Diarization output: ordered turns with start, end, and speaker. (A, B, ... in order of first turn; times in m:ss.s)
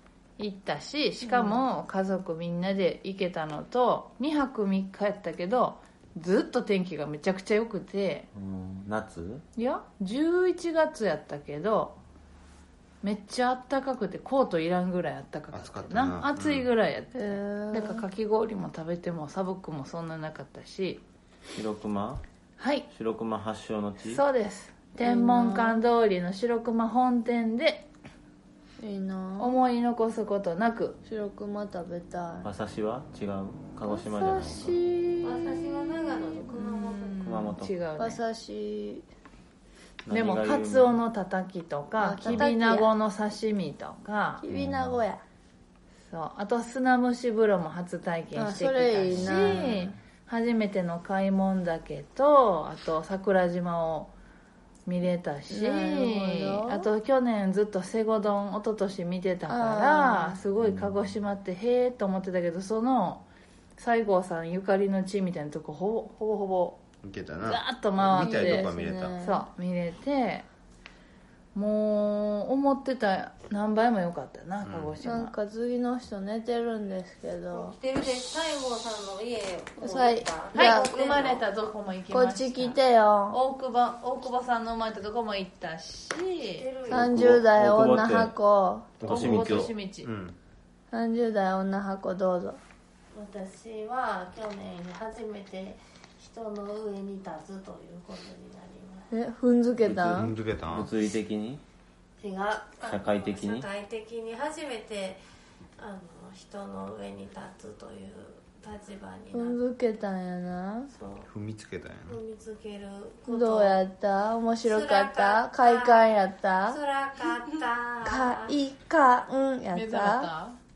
0:00.4-0:08.3 A
0:01.2-0:01.7 B
0:08.3-0:09.4 C
0:09.6-0:12.0 A
0:13.0-0:21.0 A
0:15.5-0:16.7 D
0:17.2-0:18.0 B
0:21.6-0:22.2 C
0:22.6-0:22.9 A
0:22.9-0:24.2 C
0:24.0-0:27.9 A
0:25.0-0:25.8 B
0:28.8-0:29.6 B
0:29.4-0:31.0 A
0:31.1-0:32.5 B
0:32.4-0:34.8 C
0:34.1-0:35.5 A
0:35.2-0:37.3 E
0:36.6-0:37.0 B
0:37.0-0:38.2 A
0:37.2-0:37.8 C
0:38.0-0:39.0 B
0:40.0-0:41.0 C
0:40.1-0:44.4 A
0:42.0-0:42.9 B
0:44.4-0:45.2 B
0:44.5-0:45.0 C
0:46.1-0:54.1 A
0:48.4-0:49.9 B
0:49.3-0:49.7 C
0:54.9-1:03.2 A
0:55.5-0:56.9 B
0:59.5-1:00.4 B
1:00.6-1:01.1 C
1:03.8-1:06.8 A
1:07.0-1:09.2 D
1:07.4-1:08.7 A
1:08.2-1:09.4 B
1:09.2-1:10.5 A
1:11.5-1:15.4 A
1:14.6-1:15.0 D
1:15.0-1:17.8 B
1:17.5-1:21.5 E
1:19.8-1:20.9 B
1:20.5-1:22.8 A
1:22.1-1:23.4 B
1:23.3-1:26.7 A
1:26.6-1:27.3 E
1:26.9-1:28.4 C
1:26.9-1:29.0 B
1:29.0-1:30.4 D
1:29.0-1:30.1 A
1:29.1-1:29.7 C
1:30.9-1:32.6 B
1:33.1-1:39.1 E
1:39.1-1:40.3 B
1:39.9-1:41.6 C
1:40.0-1:40.9 D
1:42.2-1:45.2 E
1:42.8-1:43.7 C
1:45.8-1:49.6 E
1:49.3-1:50.9 B
1:50.9-1:51.3 E
1:51.3-1:52.2 D
1:52.1-1:53.8 E
1:53.3-1:56.8 B
1:54.6-1:58.6 E
1:58.0-2:00.3 B
1:59.7-2:00.6 A